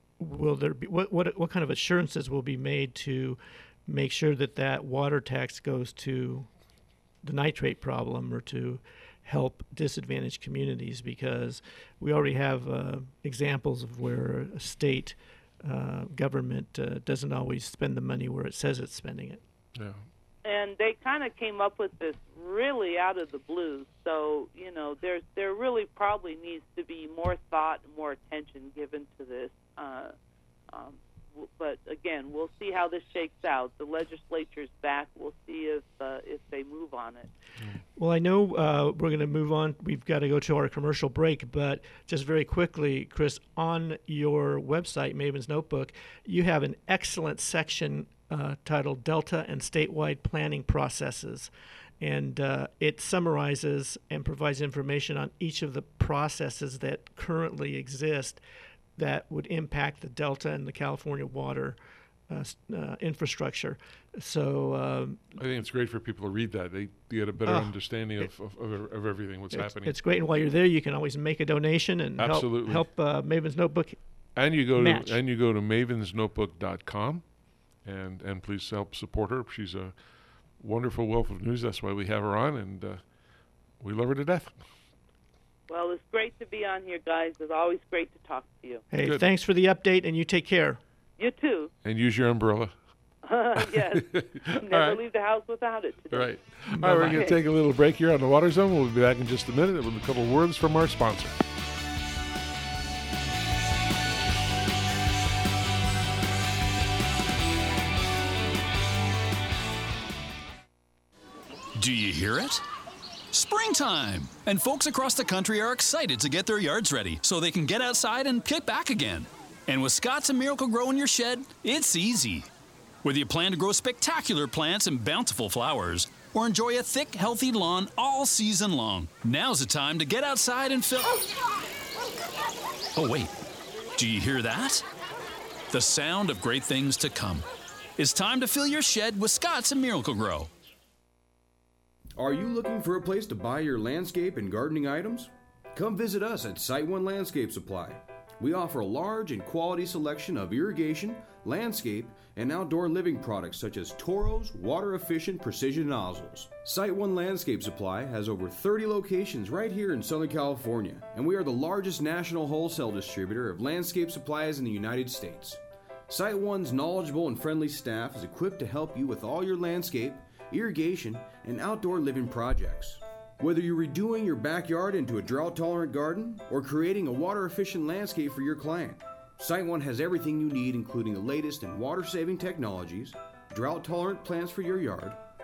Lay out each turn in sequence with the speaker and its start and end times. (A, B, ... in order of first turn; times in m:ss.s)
0:00.2-0:06.5 A
0:07.2-0:19.4 A
0:20.4-0:30.1 B
0:30.7-0:37.3 B
0:38.0-0:58.4 A
0:59.0-1:01.8 A
1:02.3-1:05.4 A
1:05.4-1:09.9 C
1:07.4-1:08.3 A
1:09.5-1:14.0 A
1:12.2-1:12.8 C
1:14.4-1:17.2 C
1:14.7-1:15.2 A
1:17.8-1:19.9 C
1:20.6-1:23.0 C
1:23.8-1:24.6 C
1:25.7-1:28.8 B
1:28.9-1:30.8 A
1:29.0-1:29.3 C
1:31.2-1:31.7 B
1:31.8-1:32.7 C
1:33.2-1:36.3 B
1:34.1-1:35.0 C
1:36.1-1:41.3 C
1:36.7-1:37.3 A
1:51.8-1:52.6 D
1:53.3-2:02.5 D
2:03.0-2:11.2 D
2:13.0-2:13.3 D
2:14.0-2:14.8 D
2:15.7-2:17.4 D
2:18.0-2:20.5 D
2:22.2-3:05.2 E